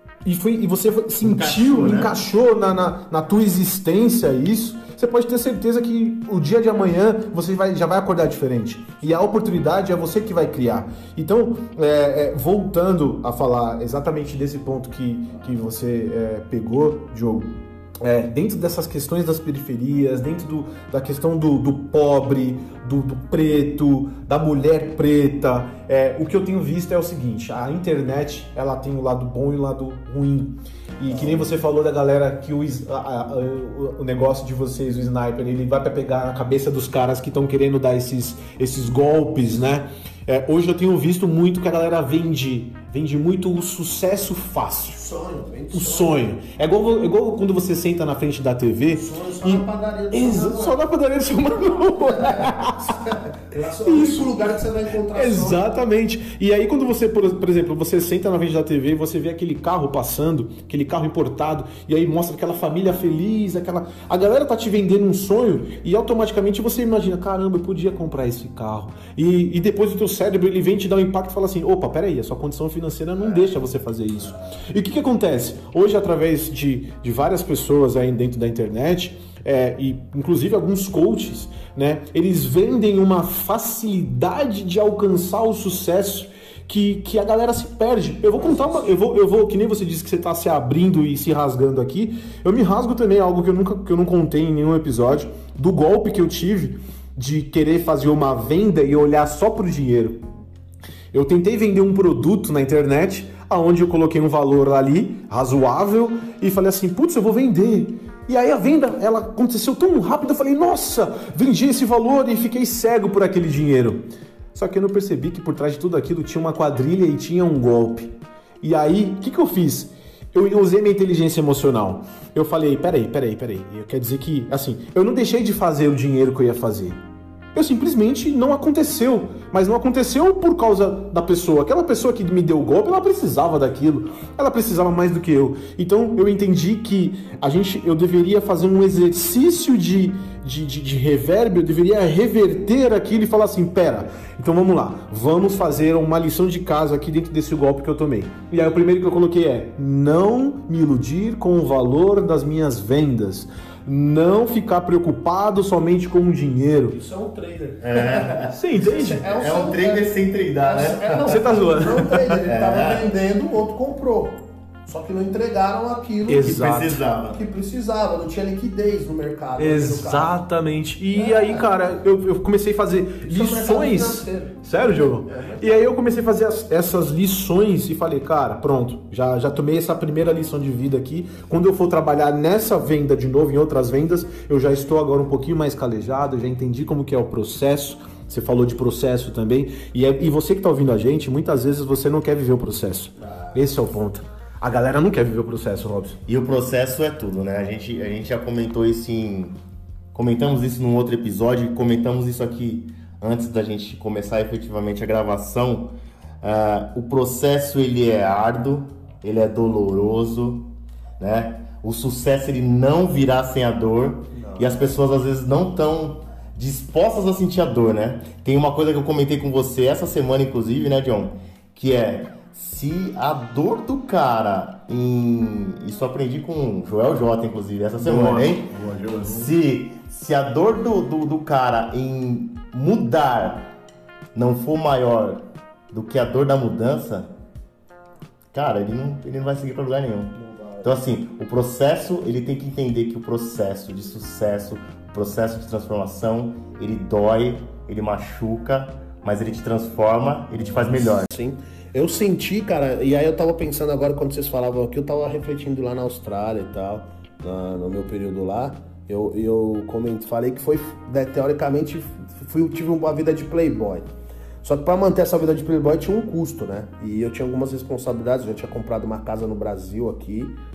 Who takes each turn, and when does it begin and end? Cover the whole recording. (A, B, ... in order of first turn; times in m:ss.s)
0:00.2-0:45.0 A
0:01.2-0:02.2 B
0:31.1-0:31.6 C
0:45.0-0:46.3 C
0:45.7-0:52.8 A
0:48.9-0:50.8 C
0:51.8-0:55.6 C
0:53.8-0:54.6 A
0:55.1-1:40.2 A
1:28.4-1:29.0 C
1:41.1-2:07.0 A
2:07.5-2:37.0 A
2:36.9-2:46.6 C
2:37.8-2:38.5 B
2:38.5-2:39.3 A
2:39.3-2:41.4 B
2:41.2-2:42.4 A
2:42.4-2:43.1 B
2:46.3-2:47.0 A
2:46.4-2:47.4 B
2:47.3-2:50.4 C
2:49.6-3:16.2 A
2:51.1-2:51.6 C
2:53.2-2:55.9 C
3:16.3-3:19.6 B
3:20.1-3:48.7 B
3:34.4-3:34.9 C
3:48.0-3:49.5 A
3:49.2-3:53.7 B
3:54.3-3:57.3 B
3:58.5-4:11.3 B
4:00.5-4:00.8 C
4:11.2-4:24.1 C
4:24.6-4:30.6 C